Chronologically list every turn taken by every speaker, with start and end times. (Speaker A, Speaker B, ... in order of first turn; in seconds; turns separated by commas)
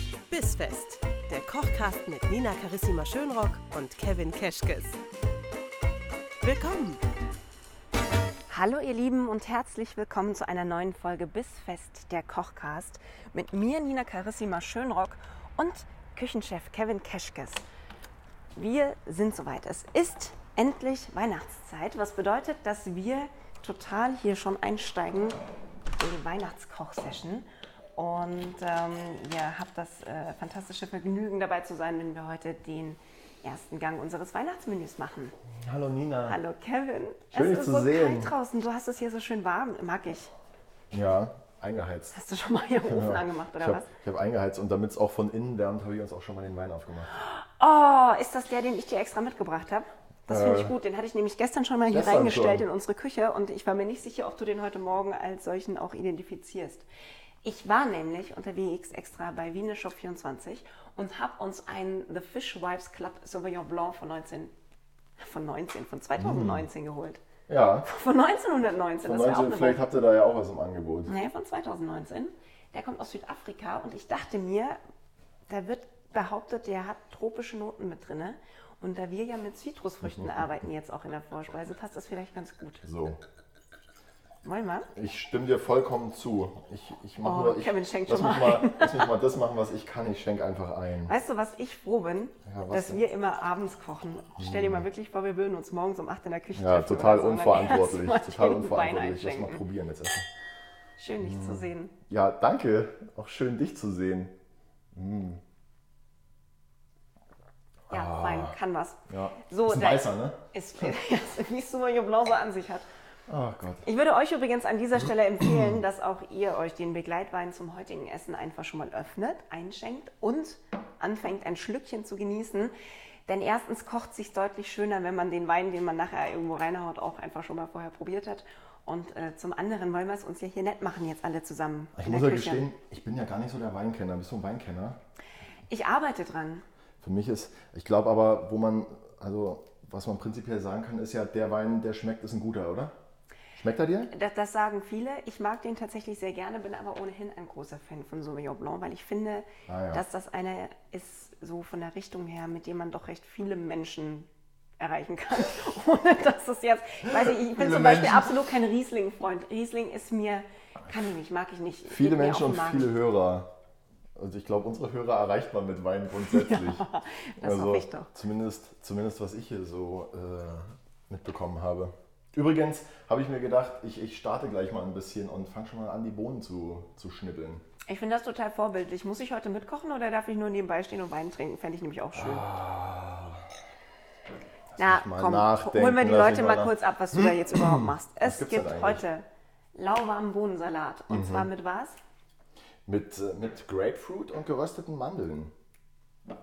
Speaker A: 0.3-5.0, Speaker A: 6.4-7.0, Speaker B: 8.5-17.6, Speaker B: 18.6-25.4, Speaker B: 26.0-35.4, Speaker C: 35.5-36.4, Speaker B: 36.3-40.3, Speaker C: 37.3-38.3, Speaker C: 40.9-42.1, Speaker B: 42.1-43.9, Speaker C: 42.9-47.1, Speaker B: 47.2-56.9, Speaker C: 50.3-50.8, Speaker C: 51.9-52.6, Speaker B: 57.4-64.5, Speaker B: 65.2-67.2, Speaker C: 66.2-66.7, Speaker C: 67.5-67.9, Speaker B: 67.9-69.8, Speaker C: 69.0-71.1, Speaker B: 71.1-74.8, Speaker B: 75.5-82.8, Speaker C: 82.8-83.2, Speaker B: 84.4-84.9, Speaker C: 85.0-91.1, Speaker B: 87.2-89.1, Speaker B: 91.1-99.6, Speaker C: 92.5-93.0, Speaker C: 94.4-94.8, Speaker C: 96.6-100.3, Speaker B: 101.0-101.9, Speaker C: 101.2-104.3, Speaker C: 105.0-105.4, Speaker C: 107.9-108.5, Speaker B: 107.9-112.9, Speaker C: 109.1-110.9, Speaker C: 113.3-113.9, Speaker B: 113.8-122.7, Speaker C: 115.4-115.8, Speaker B: 123.3-132.6, Speaker C: 131.9-135.0, Speaker B: 135.7-136.6, Speaker C: 137.0-142.9, Speaker C: 143.6-144.1, Speaker B: 144.1-162.9, Speaker C: 149.7-150.0, Speaker C: 157.1-158.4, Speaker C: 161.9-163.5, Speaker C: 164.2-166.8, Speaker B: 166.2-168.1, Speaker C: 167.4-177.7, Speaker B: 177.9-182.5, Speaker C: 182.2-183.4, Speaker C: 184.8-189.0, Speaker B: 184.8-192.0, Speaker C: 191.1-191.5, Speaker C: 192.9-195.5